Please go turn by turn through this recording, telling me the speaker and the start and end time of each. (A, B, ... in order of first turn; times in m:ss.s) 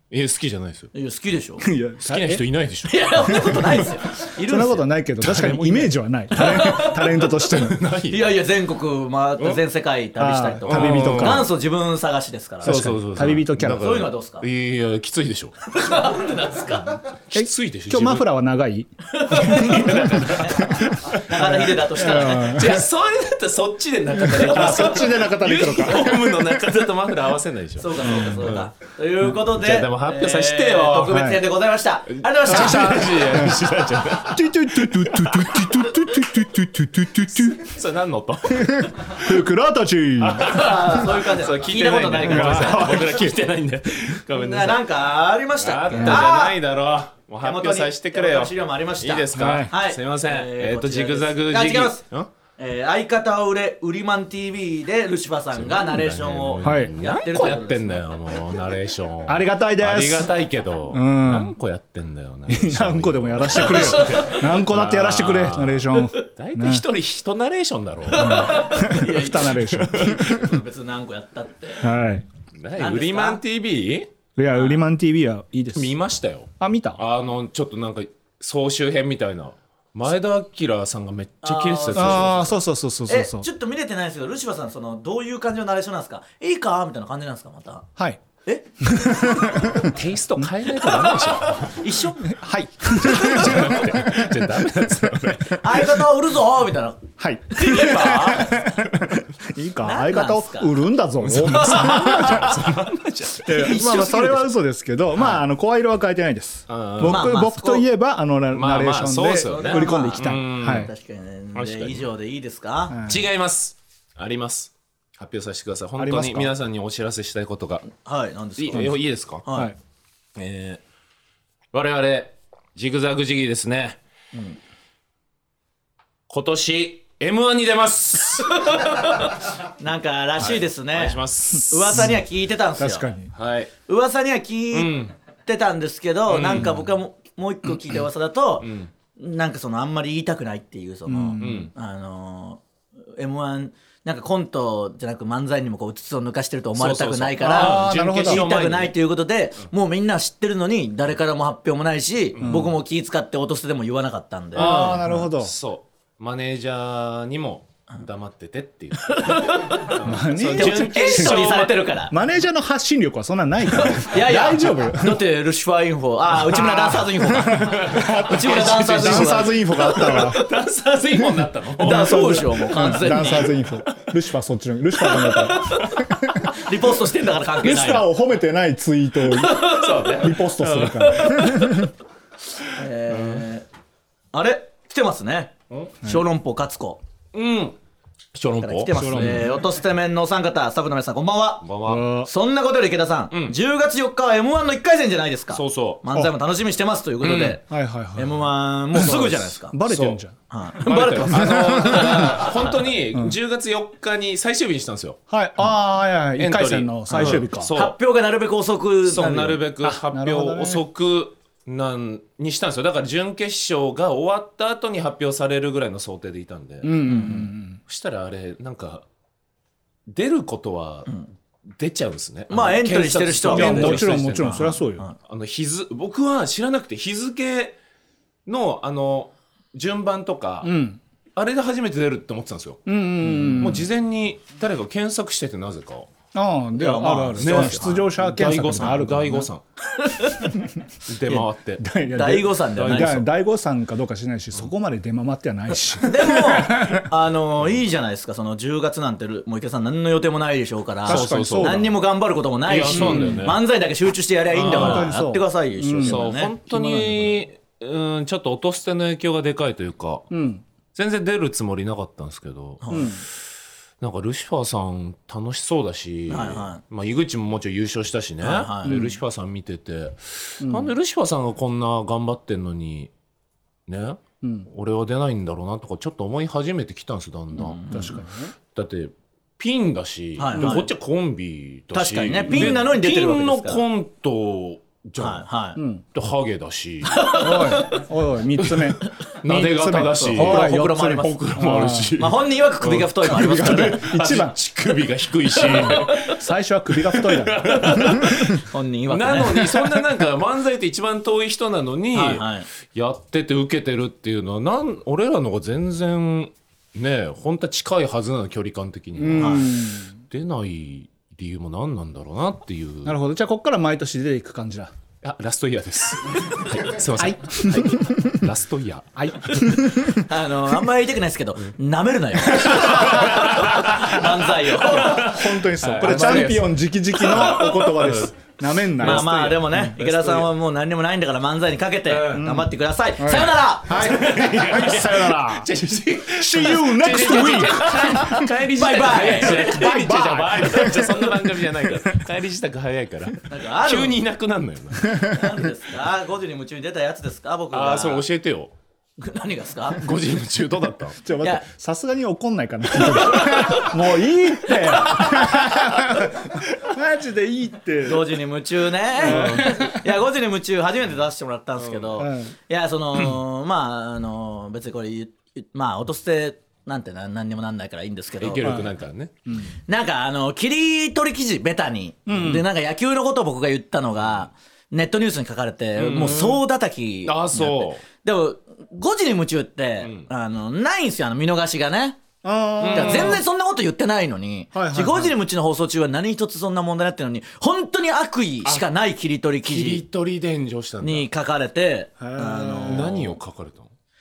0:00.1-0:00.9 A
0:00.9-0:01.6 B
0:01.6-0:02.4 C
0:02.0-0:03.8 A
0:02.8-0:04.9 B
0:03.3-0:03.9 C
0:04.4-0:07.8 C
0:05.2-0:08.4 A
0:06.4-0:07.2 B
0:08.1-0:12.8 B
0:10.2-0:11.5 C
0:10.7-0:11.5 A
0:12.6-0:14.1 C
0:12.6-0:15.6 A
0:13.6-0:14.4 B
0:15.7-0:17.0 B
0:17.3-0:18.2 A
0:17.3-0:22.8 C
0:19.1-0:22.7 B
0:19.3-0:21.7 A
0:22.2-0:28.7 A
0:24.2-0:26.7 C
0:24.5-0:25.1 B
0:27.8-0:33.2 B
0:29.4-0:31.2 A
0:31.1-0:31.4 C
0:32.1-0:35.6 A
0:32.5-0:33.6 C
0:34.2-0:37.7 C
0:37.3-0:39.3 A
0:38.5-0:40.6 C
0:40.2-0:44.9 A
0:40.5-0:43.2 B
0:42.2-0:43.3 C
0:44.3-0:46.6 B
0:45.6-0:52.3 A
0:45.9-0:46.2 C
0:47.4-0:52.0 B
0:49.3-0:49.7 C
0:52.6-0:58.0 B
0:55.5-1:09.0 A
0:56.6-0:56.9 C
0:59.3-1:00.3 C
1:00.9-1:01.5 C
1:02.5-1:06.8 C
1:03.8-1:04.3 B
1:08.1-1:11.9 B
1:08.2-1:10.6 C
1:09.7-1:10.4 A
1:11.8-1:12.3 C
1:12.5-1:14.1 A
1:12.8-1:13.4 B
1:14.4-1:15.9 C
1:14.5-1:14.8 B
1:15.7-1:22.6 A
1:16.6-1:17.0 C
1:21.4-1:22.5 B
1:22.0-1:23.4 C
1:23.1-1:27.9 B
1:28.0-1:28.2 C
1:28.4-1:29.5 B
1:28.8-1:30.5 C
1:29.7-1:31.8 A
1:30.9-1:32.4 B
1:32.3-1:34.3 C
1:32.9-1:33.7 B
1:33.0-1:36.0 A
1:35.6-1:37.0 B
1:37.2-1:42.7 C
1:37.6-1:38.9 A
1:37.6-1:38.2 B
1:39.8-1:40.8 B
1:41.2-1:43.8 A
1:43.4-1:50.9 C
1:43.5-1:44.5 B
1:46.7-1:47.3 A
1:47.0-1:47.8 B
1:48.5-1:50.9 A
1:49.4-1:53.0 B
1:51.5-1:52.1 A
1:52.9-1:53.2 C
1:53.0-1:57.9 A
1:56.0-1:56.5 C
1:57.9-1:59.7 B
1:58.6-1:59.4 A
1:59.5-1:59.8 C
2:00.4-2:00.8 A
2:01.7-2:04.0 A
2:06.3-2:08.7 A
2:08.4-2:13.1 B
2:10.4-2:12.1 A
2:11.9-2:12.2 C
2:12.8-2:13.3 C
2:13.3-2:13.7 A
2:13.9-2:22.6 B
2:14.7-2:15.1 A
2:16.3-2:16.7 A
2:18.6-2:18.9 A
2:21.1-2:21.7 C
2:21.4-2:21.7 A
2:23.2-2:34.8 B
2:26.8-2:28.9 A
2:27.4-2:28.5 C
2:32.4-2:32.7 A
2:32.4-2:32.7 C
2:34.5-2:41.9 A
2:34.6-2:35.5 C
2:39.0-2:40.0 B
2:40.0-2:41.5 C
2:40.5-2:42.2 B
2:42.1-2:45.2 C
2:43.7-2:50.4 B
2:46.4-2:50.4 C
2:47.5-2:52.5 A
2:51.8-2:53.6 B
2:51.8-2:56.5 C
2:55.1-2:58.1 B
2:55.5-2:55.9 A
2:57.6-3:01.9 C
2:59.3-3:01.9 B
2:59.5-3:01.3 A
3:02.6-3:03.6 B
3:03.1-3:03.5 A
3:04.3-3:07.0 B
3:05.7-3:06.0 A
3:07.3-3:07.8 A
3:08.3-3:09.5 A
3:08.6-3:19.8 B
3:08.9-3:09.6 C
3:11.6-3:12.1 A
3:11.9-3:12.3 C
3:13.3-3:13.6 A
3:15.5-3:16.0 A
3:17.2-3:17.6 A
3:17.7-3:20.4 C
3:19.8-3:20.2 A
3:20.5-3:22.9 B
3:20.8-3:25.2 A
3:21.3-3:22.2 C
3:25.3-3:27.7 C
3:26.4-3:28.0 A
3:27.1-3:29.6 B
3:29.0-3:36.9 A
3:29.8-3:30.8 C
3:36.8-3:37.8 C
3:37.0-3:37.5 B
3:37.8-3:39.0 A
3:40.1-3:41.1 A
3:41.7-3:47.8 A
3:42.5-3:45.1 B
3:43.5-3:45.0 C
3:48.4-3:50.7 A
3:50.6-3:51.0 C
3:51.4-3:56.1 A
3:52.8-3:53.9 C
3:56.3-3:59.5 C
3:56.8-3:57.9 B
3:57.4-3:59.6 A
4:00.0-4:00.5 B
4:01.1-4:01.9 A
4:01.2-4:07.1 C
4:02.1-4:03.2 B
4:02.7-4:03.2 A
4:06.0-4:16.5 B
4:11.0-4:11.9 C
4:11.0-4:11.9 A
4:12.6-4:13.6 A
4:12.9-4:13.5 C
4:14.5-4:15.1 A
4:14.7-4:17.4 C
4:16.0-4:20.2 A
4:20.3-4:20.6 C
4:20.9-4:22.8 A
4:22.8-4:23.2 B
4:22.9-4:23.2 C
4:24.0-4:33.1 A
4:26.3-4:26.8 B
4:28.4-4:29.0 B
4:28.8-4:29.2 C
4:30.6-4:30.9 C
4:33.9-4:37.9 A
4:34.4-4:34.7 C
4:37.5-4:38.2 B
4:37.9-4:38.5 C
4:38.7-4:45.4 A
4:40.4-4:40.9 B
4:40.5-4:40.8 C
4:41.9-4:43.8 B
4:42.5-4:42.8 C
4:45.2-4:45.8 B
4:45.8-4:46.0 C
4:46.1-4:47.2 A
4:47.0-4:48.0 B
4:47.4-4:52.2 C
4:48.6-5:09.7 A
4:50.3-4:51.4 B
4:52.2-4:54.1 B
4:53.2-4:54.5 C
4:55.6-4:56.2 B
4:55.7-4:58.6 C
4:58.6-4:59.6 B
4:59.6-5:00.0 C
5:02.1-5:02.7 B
5:09.2-5:10.2 C
5:09.4-5:09.8 B
5:10.3-5:13.2 A
5:13.0-5:14.9 C
5:15.2-5:19.6 A
5:17.1-5:18.5 C
5:19.2-5:20.3 C
5:19.7-5:25.5 B
5:22.5-5:28.3 A
5:22.6-5:23.2 C
5:24.9-5:30.0 C
5:26.0-5:26.6 B
5:27.3-5:27.7 B
5:29.0-5:30.5 A
5:29.0-5:34.3 B
5:32.1-5:32.6 A
5:32.4-5:35.7 C
5:33.9-5:45.3 A
5:36.3-5:38.4 C
5:38.8-5:39.7 B
5:39.4-5:42.2 C
5:43.5-5:44.2 B
5:45.1-5:48.2 B
5:47.7-5:48.7 A
5:49.2-5:50.1 B
5:50.0-5:51.2 A
5:51.2-5:58.4 C
5:51.4-5:51.6 B
5:52.9-5:56.0 B
5:58.0-6:08.8 B
5:59.2-6:00.0 C
5:59.2-5:59.8 A
6:01.8-6:02.2 A
6:02.2-6:02.6 C
6:08.4-6:09.3 A
6:08.6-6:08.9 C
6:09.5-6:09.7 C
6:09.9-6:22.2 B
6:12.3-6:12.6 C
6:16.0-6:16.6 A
6:17.2-6:18.0 A
6:20.0-6:20.3 A
6:22.4-6:23.4 C
6:22.8-6:23.4 A
6:22.9-6:30.0 B
6:24.7-6:25.4 C
6:29.6-6:31.3 A
6:31.0-6:33.2 B
6:32.2-6:33.3 C
6:32.8-6:33.9 A